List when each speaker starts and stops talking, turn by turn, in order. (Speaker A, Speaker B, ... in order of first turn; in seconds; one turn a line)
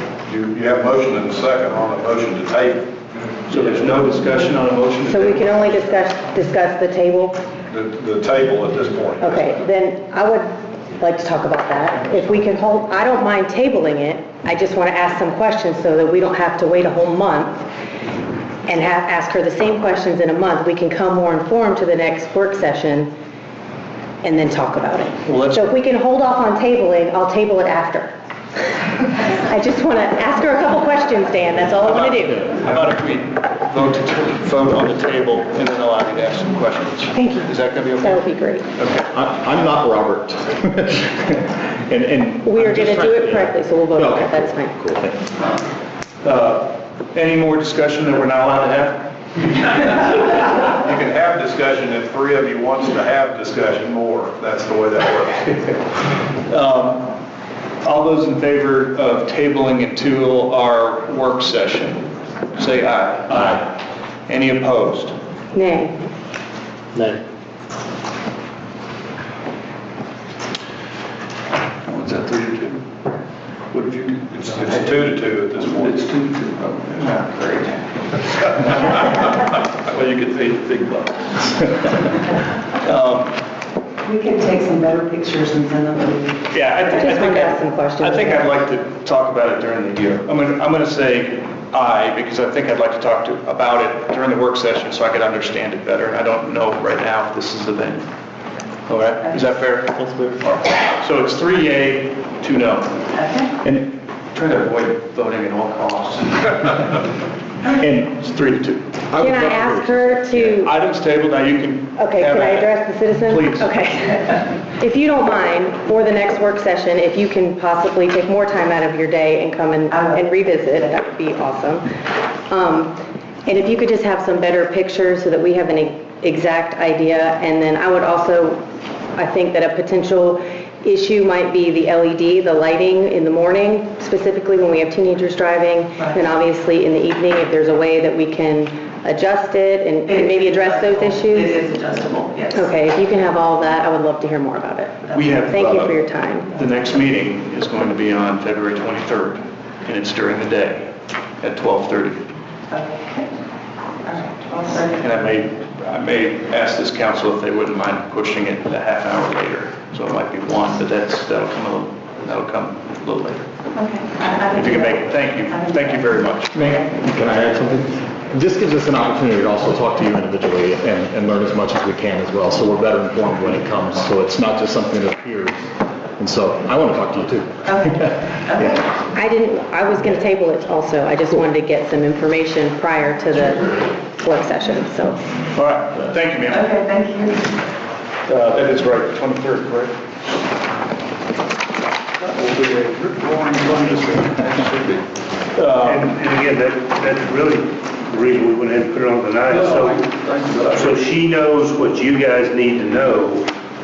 Speaker A: 0.2-2.9
Speaker B: 3.5-5.8
Speaker C: 5.0-7.4
Speaker A: 7.7-9.6
Speaker C: 9.2-17.6
Speaker C: 18.7-23.1
Speaker C: 24.2-28.1
Speaker B: 25.2-25.7
Speaker C: 29.0-32.5
Speaker B: 31.8-38.2
Speaker C: 37.1-38.6
Speaker B: 38.8-39.0
Speaker D: 38.9-45.2
Speaker C: 42.4-44.7
Speaker B: 46.2-50.5
Speaker A: 50.6-55.7
Speaker B: 56.5-57.1
Speaker B: 57.8-65.1
Speaker C: 65.5-66.0
Speaker B: 71.8-72.8
Speaker B: 73.7-74.4
Speaker A: 74.4-76.0
Speaker B: 75.9-77.8
Speaker B: 78.4-79.1
Speaker B: 82.8-83.3
Speaker E: 84.1-86.2
Speaker B: 86.5-98.1
Speaker C: 87.0-88.5
Speaker B: 98.9-107.0
Speaker B: 107.6-108.9
Speaker D: 109.1-110.5
Speaker C: 109.2-110.7
Speaker B: 110.3-113.7
Speaker C: 112.0-121.8
Speaker C: 122.5-128.6
Speaker C: 129.2-141.7
Speaker E: 141.6-142.5
Speaker C: 142.5-146.5
Speaker B: 145.1-152.2
Speaker B: 154.9-163.4
Speaker B: 164.2-166.5
Speaker D: 166.5-175.7
Speaker D: 176.2-178.8
Speaker C: 179.1-185.2
Speaker B: 185.5-187.2
Speaker B: 188.2-189.9
Speaker B: 192.4-194.7
Speaker B: 195.5-196.1
Speaker F: 195.8-203.5
Speaker B: 199.5-200.6